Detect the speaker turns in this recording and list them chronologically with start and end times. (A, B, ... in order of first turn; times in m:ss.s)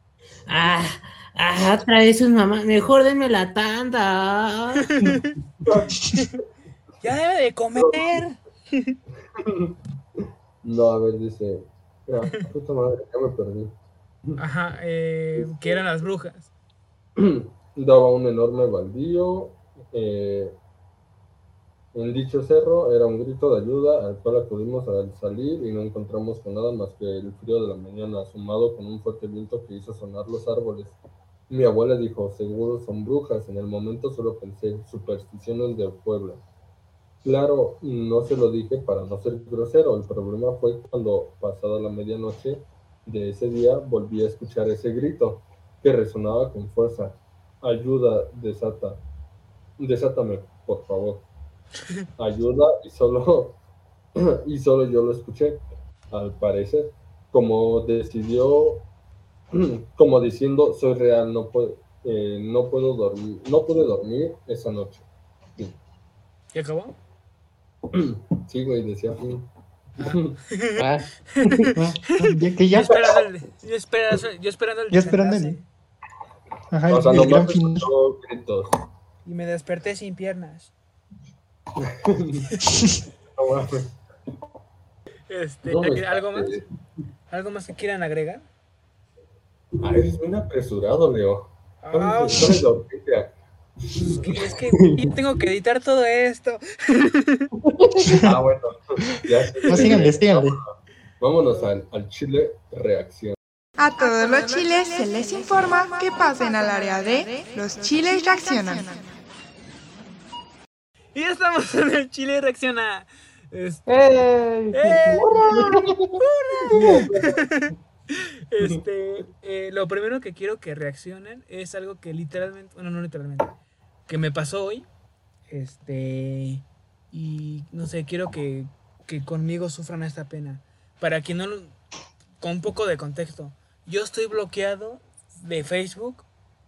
0:00.5-0:05.1 A
0:04.9-0:05.3 B
0:05.6-0:06.0 C
0:07.0-0:08.9 B
0:07.8-0:08.1 C
0:09.4-0:09.7 C
0:10.6-0:13.7 C
0:14.4-0:16.5 B
0:15.4-0:15.8 C
0:17.2-0:20.5 C
0:21.9-0:31.0 C
0:31.5-0:36.4 C
0:37.2-0:49.0 C
0:49.8-0:51.2 C
0:52.2-0:53.6 C
0:54.2-0:55.6 C
0:56.1-0:58.8 C
0:59.5-1:05.0 C
1:06.5-1:06.9 B
1:07.9-1:09.4 C
1:10.0-1:10.8 B
1:10.0-1:10.4 C
1:10.8-1:11.9 A
1:11.4-1:12.2 B
1:12.1-1:13.0 D
1:12.7-1:15.6 B
1:14.9-1:15.6 D
1:16.7-1:17.9 D
1:16.9-1:18.7 C
1:19.2-1:20.7 B
1:21.8-1:22.6 C
1:23.3-1:23.9 C
1:25.3-1:26.6 B
1:25.7-1:26.6 C
1:27.3-1:28.4 B
1:29.8-1:34.5 C
1:31.8-1:32.5 B
1:34.0-1:37.5 B
1:37.7-1:38.0 A
1:38.0-1:38.3 D
1:38.1-1:43.4 C
1:39.7-1:40.6 D
1:43.8-1:49.0 E
1:51.1-1:53.8 B
1:53.9-1:55.6 A
1:54.7-1:55.6 B
1:55.1-1:55.8 C
1:56.2-2:03.5 B
1:56.7-1:57.6 C
2:04.1-2:04.8 B
2:05.5-2:11.8 B
2:12.4-2:16.3 B